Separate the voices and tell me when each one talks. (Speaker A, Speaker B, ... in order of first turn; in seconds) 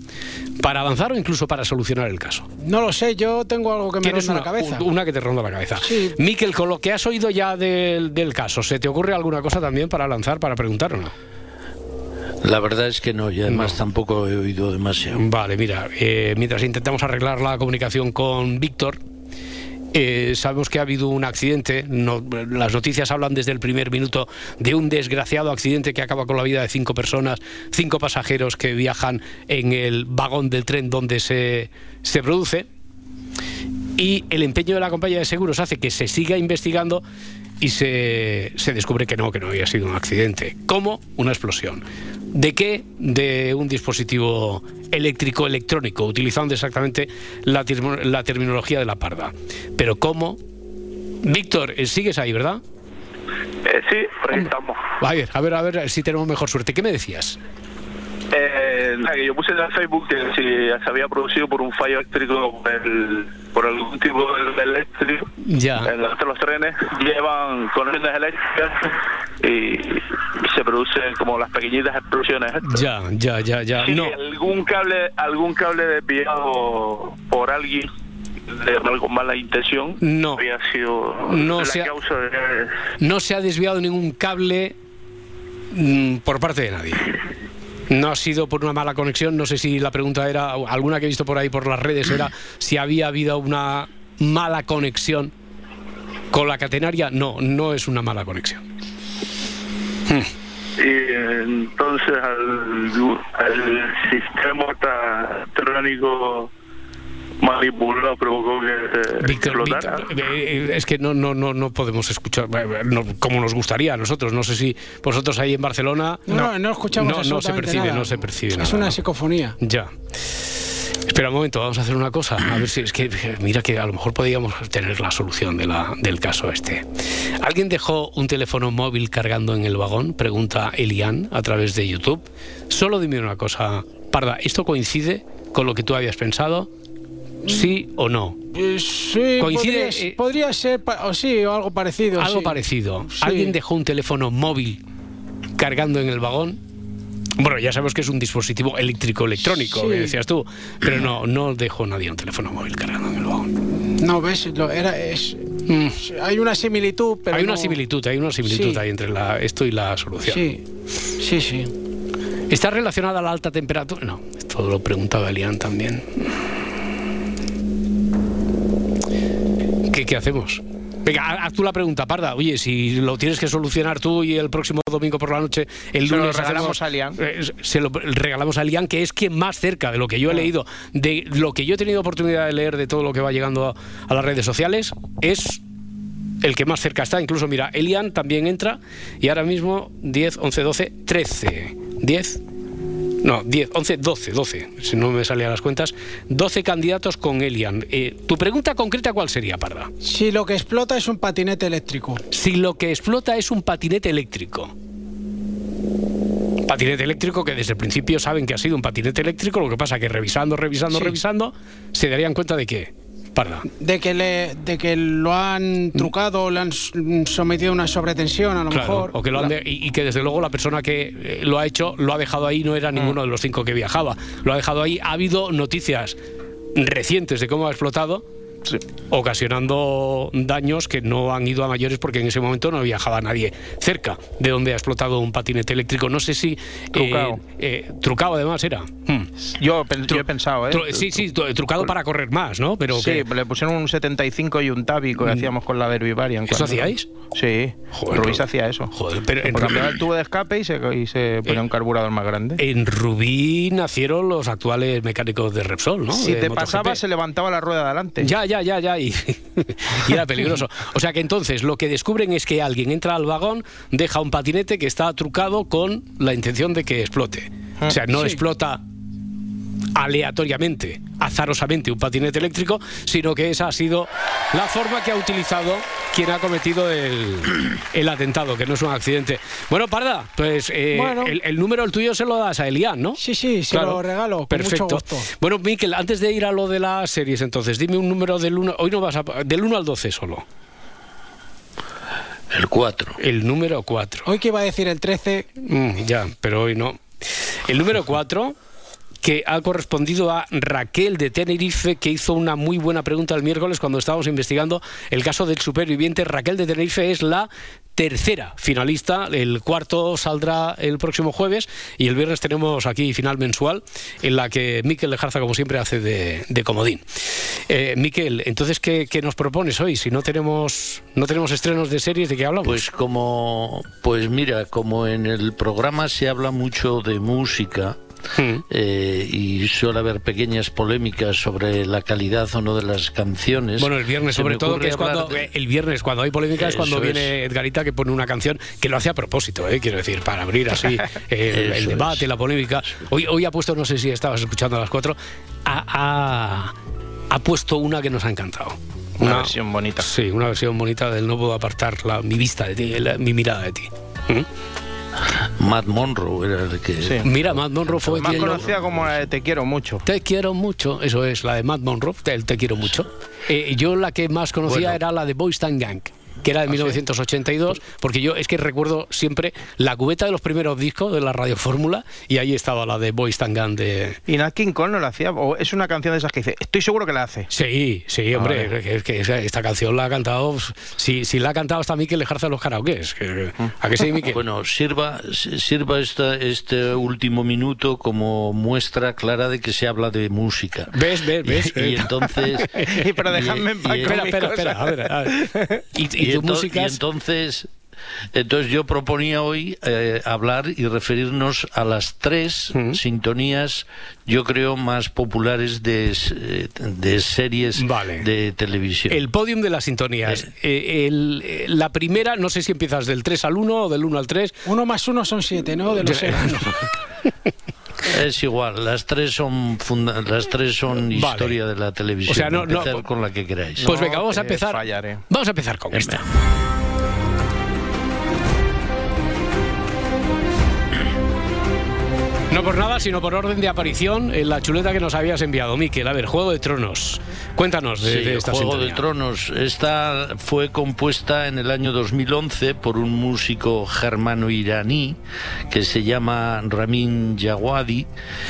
Speaker A: 0.6-2.5, 4.0-11.1, 13.5-13.8, 15.1-19.0, 19.9-32.7, 34.0-37.0, 37.6-50.4, 51.2-52.6, 55.0-57.4, 65.4-65.9, 72.6-74.2, 80.0-80.5, 81.3-81.9, 83.0-84.8, 85.7-87.1, 87.9-95.3, 96.3-98.6, 109.2-119.0, 119.6-119.9, 121.1-126.8, 127.4-136.7, 137.5-138.4, 139.4-140.2, 142.2-144.8, 145.6-146.6, 147.4-153.5, 155.7-156.0, 157.3-160.4, 162.5-166.2, 169.9-185.6, 186.4-192.4, 193.2-199.9, 202.3-204.7, 206.7-213.7, 218.7-226.2, 226.8-228.2, 229.1-239.3, 240.1-243.3, 246.5-247.1, 247.9-250.0, 252.6-257.0, 258.2-268.8, 269.9-290.4, 293.2-294.3, 295.6-297.0, 297.6-298.6, 299.2-317.0, 317.7-322.8, 328.4-328.6, 333.8-346.7, 347.3-354.4, 357.2-358.7, 360.1-374.2, 377.5-384.4, 390.9-392.1, 392.7-397.0, 402.7-403.0, 407.8-408.3, 409.1-414.6, 416.0-416.9, 421.1-421.6, 422.3-423.0, 423.8-426.2, 432.5-439.1
Speaker B: 2.6-4.8, 5.8-6.2, 116.3-119.5, 138.5-142.6, 143.1-143.6, 149.4-150.2, 154.0-157.8, 158.4-158.8, 160.2-160.6, 161.2-161.7, 200.0-202.2, 210.9-211.2, 213.8-219.5, 280.9-281.4, 283.2-285.3, 294.2-295.5, 414.7-416.6
Speaker C: 12.4-15.2, 292.5-293.2, 322.6-328.0, 328.7-335.5, 336.6-337.3, 341.5-342.3, 355.6-359.1, 364.6-365.0, 384.2-392.7, 393.7-394.2, 396.2-397.7, 398.4-409.2, 418.1-423.9, 425.9-426.2, 438.0-445.2, 445.7-448.1
Speaker D: 53.7-54.8, 58.3-65.3, 65.8-72.8, 73.8-77.9, 78.5-82.7, 100.8-106.5, 107.4-110.2
Speaker E: 176.1-177.2, 236.9-237.4, 239.5-241.3, 242.9-248.9, 249.4-252.6, 256.1-258.3, 349.2-350.1, 358.1-360.0, 374.3-377.5, 392.9-395.6, 423.8-425.2